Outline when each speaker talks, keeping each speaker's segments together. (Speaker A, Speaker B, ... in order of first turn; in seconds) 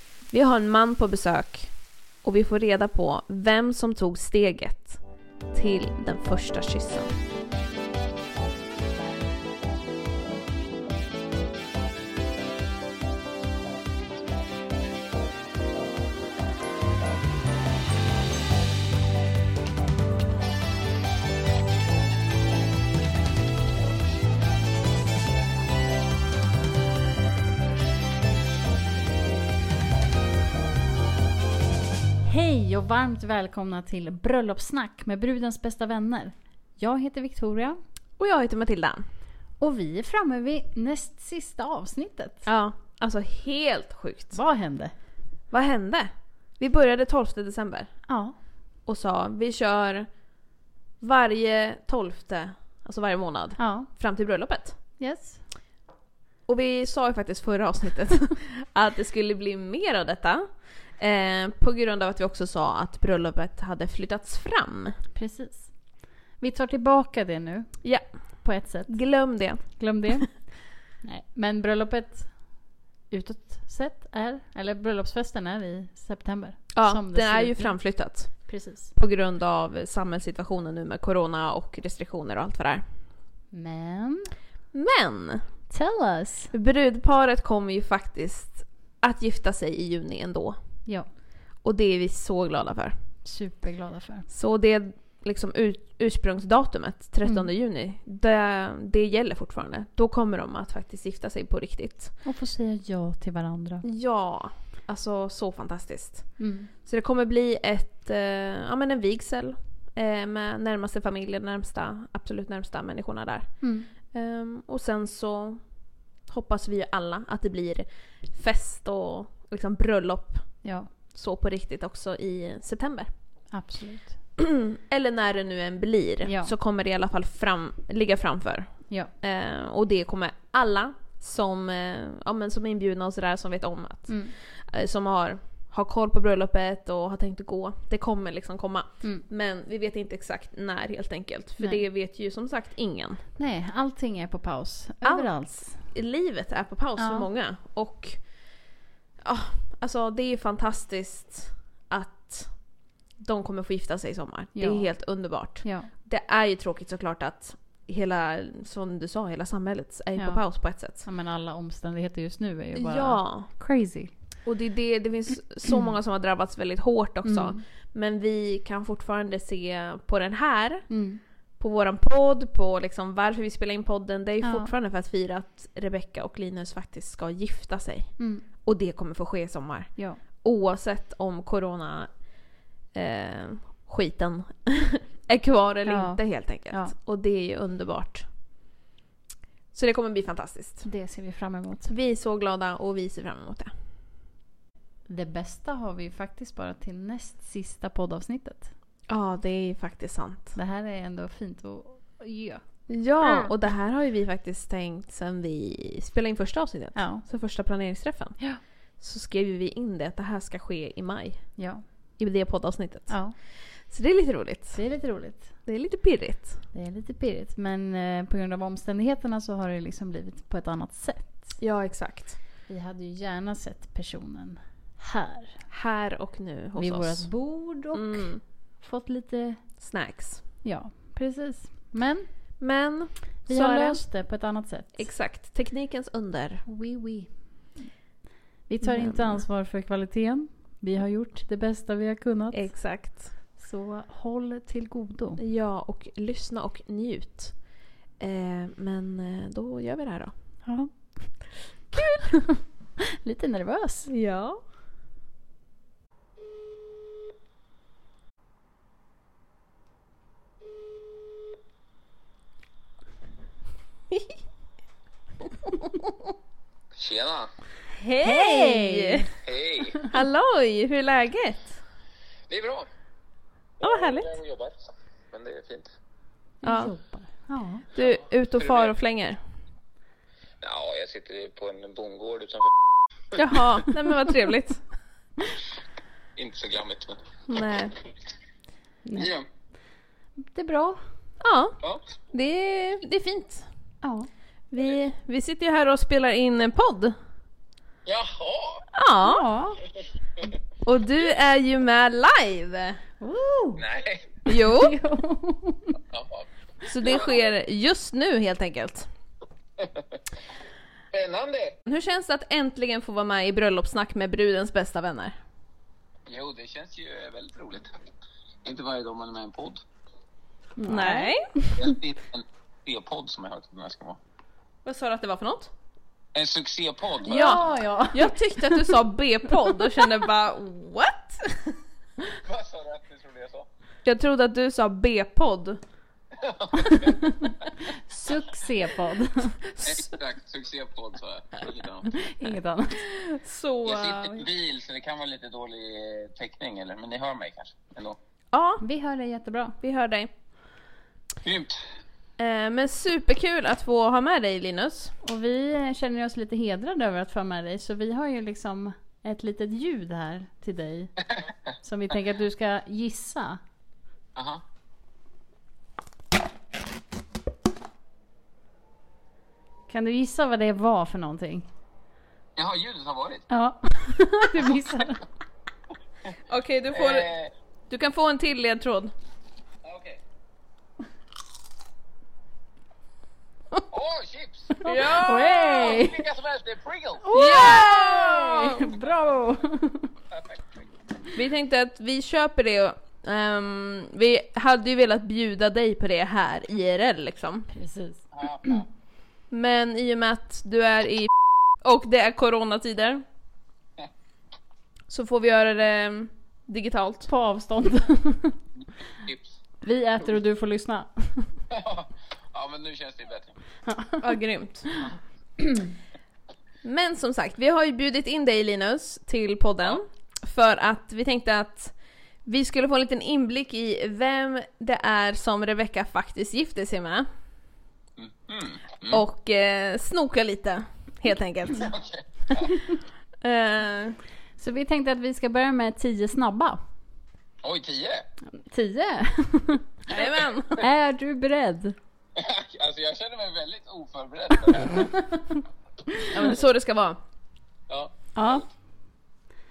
Speaker A: 0.3-1.7, 2.2-5.0, 5.5-7.1, 38.2-39.0, 42.4-44.4, 45.5-47.9, 48.8-50.1, 51.0-54.8, 56.5-64.9, 67.8-69.8, 76.7-82.8, 84.7-85.4, 86.5-90.6, 91.6-92.9, 94.3-102.1, 103.8-115.6, 116.3-123.1, 124.4-143.2, 145.0-148.3, 149.2-152.6, 153.2-161.1, 162.7-163.5, 164.4-170.9, 171.6-182.2, 182.9-188.3, 189.7-190.8, 191.8-193.7, 199.1-200.5, 202.9-208.4, 209.0-211.4, 212.2-214.8, 215.6-216.6, 221.6-222.3, 225.7-227.3, 227.9-228.4, 229.8-230.4, 232.6-234.0, 234.9-236.6, 238.8-239.4, 242.5-243.3, 245.4-247.6, 248.2-250.3, 251.9-252.2, 254.1-254.6, 265.6-266.1, 268.2-269.3, 270.1-271.8, 273.8-274.3, 276.6-276.9, 277.9-279.4, 283.3-284.8, 287.5-287.9, 291.4-291.8, 292.3-293.7, 294.7-297.1, 298.9-299.4, 300.8-303.0, 304.4-305.0, 306.8-309.1, 311.9-315.4, 320.9-321.5, 324.8-325.7, 327.3-331.8, 334.0-335.8, 339.6-340.1, 342.9-344.4, 348.5-348.8, 349.8-350.3, 352.4-355.1, 376.5-377.3, 377.9-379.1, 384.8-385.9, 387.3-388.9, 391.3-397.7, 399.5-403.2, 405.1-407.3, 414.2-414.9, 416.8-421.9, 422.4-427.3, 429.1-431.9, 433.4-434.2, 440.1-440.8, 446.3-447.2
Speaker B: 32.2-37.8, 39.6-42.5, 44.3-44.9, 48.1-48.4, 53.6-53.9, 55.0-55.4, 65.1-65.7, 66.4-67.9, 68.4-69.1, 69.6-72.3, 73.1-78.9, 83.5-84.3, 85.7-86.5, 93.2-94.3, 97.2-97.5, 102.2-103.8, 106.4-106.7, 113.6-113.9, 120.6-120.9, 123.5-124.2, 126.2-126.5, 134.1-134.3, 143.4-145.9, 147.0-147.3, 154.5-154.9, 155.6-155.9, 160.2-164.1, 165.7-165.9, 167.2-167.6, 170.9-171.2, 174.4-174.7, 178.2-178.4, 185.8-186.9, 190.8-191.9, 195.1-198.7, 200.5-202.6, 203.2-203.5, 206.9-207.2, 211.6-211.8, 213.1-213.3, 214.7-215.5, 216.7-221.6, 222.7-225.6, 226.8-229.6, 230.6-232.3, 233.5-235.0, 236.7-237.3, 238.7-243.0, 243.6-245.4, 250.7-252.6, 253.2-254.1, 268.0-269.3, 276.6-277.9, 289.0-289.3, 290.4-291.0, 294.0-294.3, 299.2-299.8, 303.2-303.8, 304.5-306.0, 320.8-321.9, 327.2-329.0, 337.2-339.6, 342.1-343.0, 348.8-349.8, 355.2-361.2, 361.8-363.6, 369.9-371.7, 373.5-375.2, 384.8-386.2, 387.2-390.1, 397.7-398.8, 407.3-408.6, 409.8-411.6, 413.9-414.2, 415.6-415.9, 434.6-436.8, 438.6-440.0, 440.8-441.9, 444.9-445.6, 446.1-446.5, 448.3-448.7
Speaker C: 266.9-267.5, 269.4-270.0, 272.5-272.9, 273.8-275.9, 278.0-278.9, 280.6-282.7, 286.4-287.3, 289.1-289.5, 298.0-298.9, 303.8-304.3, 306.1-306.5, 307.0-307.5, 309.8-310.2, 311.1-311.8, 316.3-317.9, 318.6-319.8, 321.7-324.2, 326.3-327.7, 332.2-333.7, 336.3-337.7, 339.8-342.5, 343.8-348.2, 351.4-351.9, 364.3-364.6, 372.6-373.5, 376.9-377.5, 379.8-380.2, 383.9-384.8, 385.8-387.3, 390.3-390.6, 398.3-398.9, 409.2-409.5, 411.7-413.6, 428.2-429.2, 431.8-432.8, 437.6-438.3, 442.3-445.1, 447.9-448.6